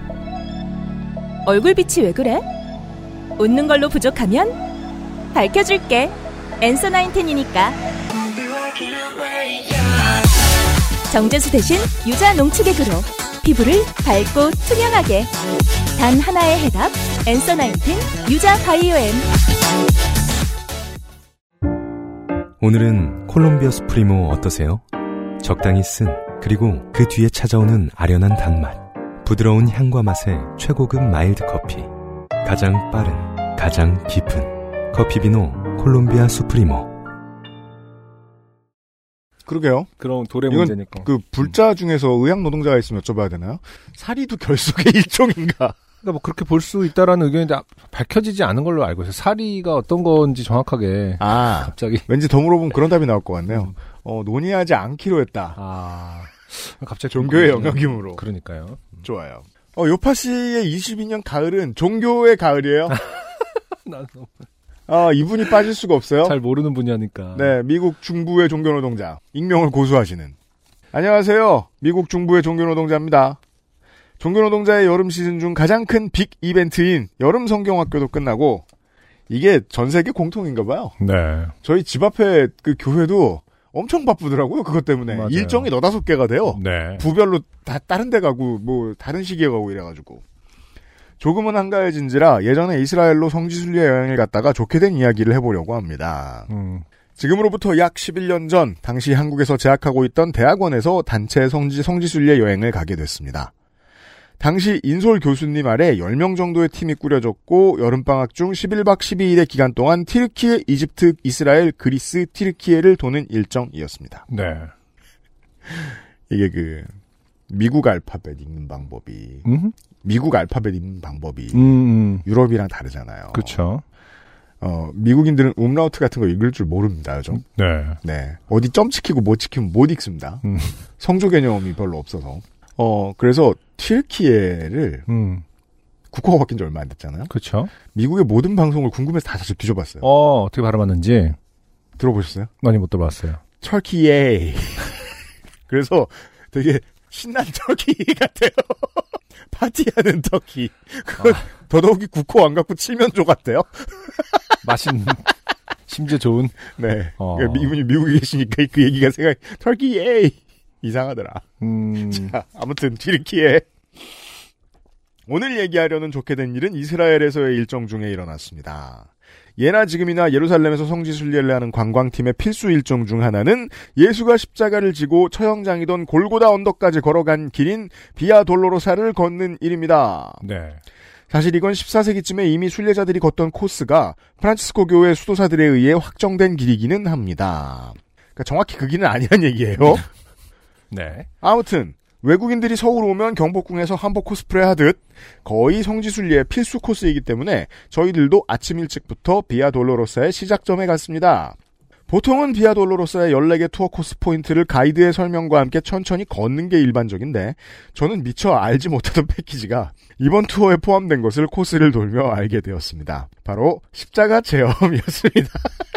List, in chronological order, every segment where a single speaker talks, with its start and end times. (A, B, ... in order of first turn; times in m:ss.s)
0:01.4-0:02.4 A
0:03.4-0:04.6 A
0:05.3-0:07.7 A
0:11.1-0:15.3 A
0:16.0-0:19.3 A
0:22.6-0:24.8 B
0:25.4-0:31.9 B
0:32.4-0:37.0 B
0:39.5-0:39.9 C
0:40.0-0:41.5 D
0:40.5-0:45.8 C
0:46.0-0:52.1 D
0:51.2-0:55.6 C
0:55.6-0:59.0 D
0:57.1-0:58.2 C
0:59.0-1:03.0 C
1:02.9-1:04.3 D
1:04.9-1:06.4 C
1:06.2-1:07.6 D
1:07.3-1:10.3 C
1:10.9-1:13.4 C
1:14.2-1:18.6 C
1:19.3-1:21.0 C
1:21.0-1:21.5 D
1:21.6-1:30.2 C
1:25.1-1:25.7 D
1:26.5-1:27.0 D
1:31.2-1:36.5 C
1:36.5-1:36.8 D
1:37.2-1:43.5 C
1:44.4-1:54.2 C
1:54.3-1:54.7 D
1:55.7-1:56.9 C
1:57.5-1:59.4 C
1:59.4-1:59.7 D
2:00.0-2:01.6 C
2:01.5-2:02.2 D
2:02.2-2:03.6 C
2:03.3-2:03.8 D
2:04.6-2:07.4 C
2:07.3-2:08.0 D
2:08.0-2:10.4 C
2:10.4-2:10.7 D
2:11.0-2:15.0 C
2:15.1-2:15.4 D
2:16.1-2:17.3 C
2:17.3-2:17.7 D
2:17.9-2:20.0 C
2:20.0-2:21.4 D
2:22.0-2:22.5 C
2:22.6-2:23.4 D
2:23.6-2:24.9 C
2:25.7-2:34.2 C
2:31.2-2:31.4 D
2:34.6-2:35.3 D
2:35.9-2:37.7 D
2:36.7-2:41.4 C
2:41.6-2:42.3 D
2:42.0-2:43.6 C
2:45.3-3:00.4 C
3:00.4-3:00.8 D
3:01.3-3:10.0 C
3:10.9-3:11.3 D
3:11.4-3:21.6 C
3:22.1-3:35.8 C